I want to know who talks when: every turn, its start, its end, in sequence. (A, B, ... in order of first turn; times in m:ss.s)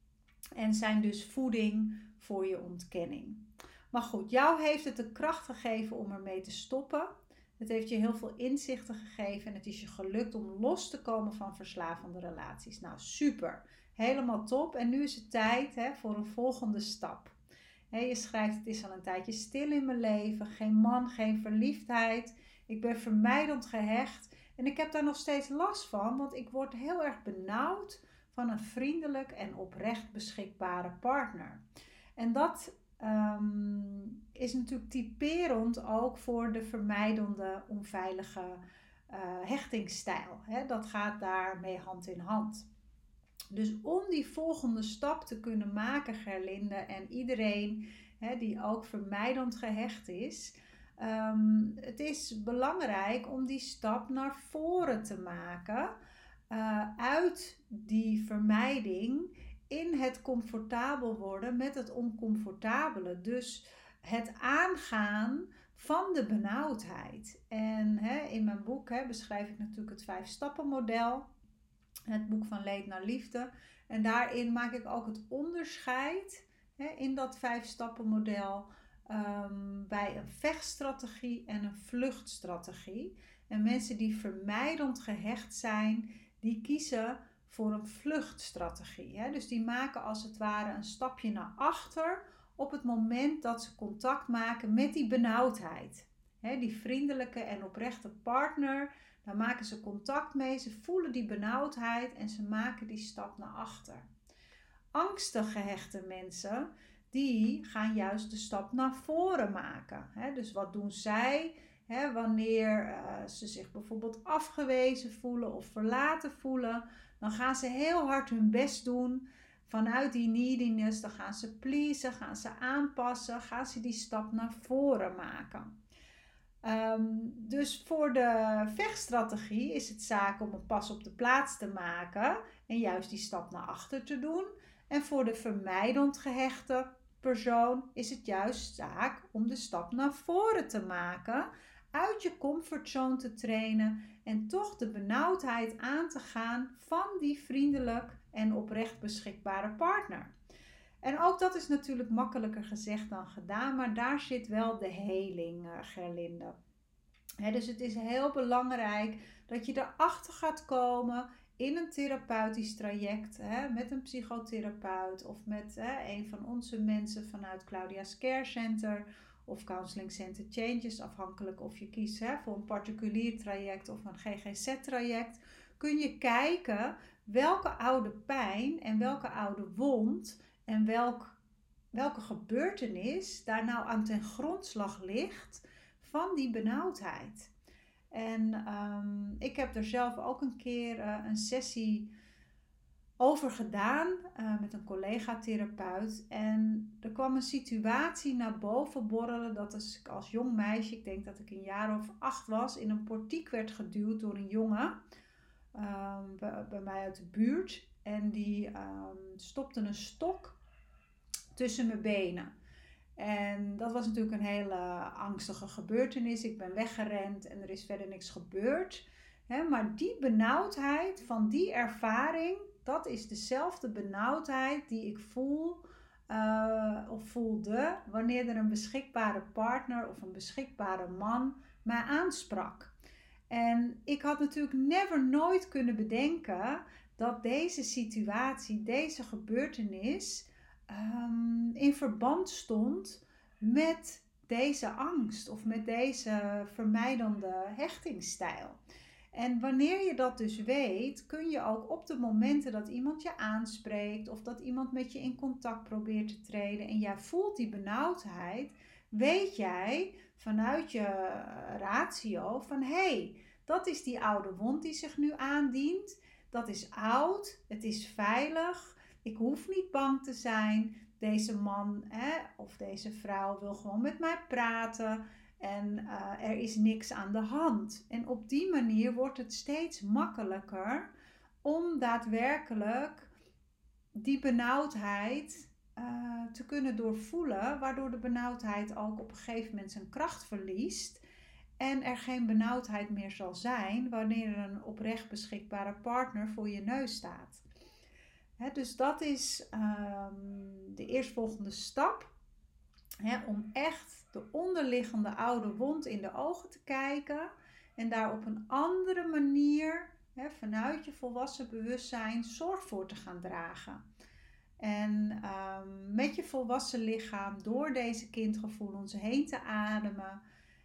0:00.6-0:17.3 A
0:17.9-0:31.6 A
0:32.2-0:42.6 A
0:43.5-0:55.9 A
0:56.5-1:11.3 A
1:12.1-1:44.1 A
1:44.9-2:05.7 A
2:06.6-2:30.3 A
2:31.0-2:36.5 A
2:37.4-3:01.4 A
3:01.9-3:07.5 A
3:08.1-3:12.1 A
3:13.2-3:25.0 A
3:25.7-3:30.6 A
3:31.5-3:32.5 A
3:33.2-3:52.9 A
3:53.5-4:08.8 A
4:09.3-4:41.1 A
4:41.6-4:43.3 A
4:44.1-4:51.2 A
4:51.8-4:57.6 A
4:58.6-5:02.3 A
5:03.2-5:14.0 A
5:14.8-5:20.4 A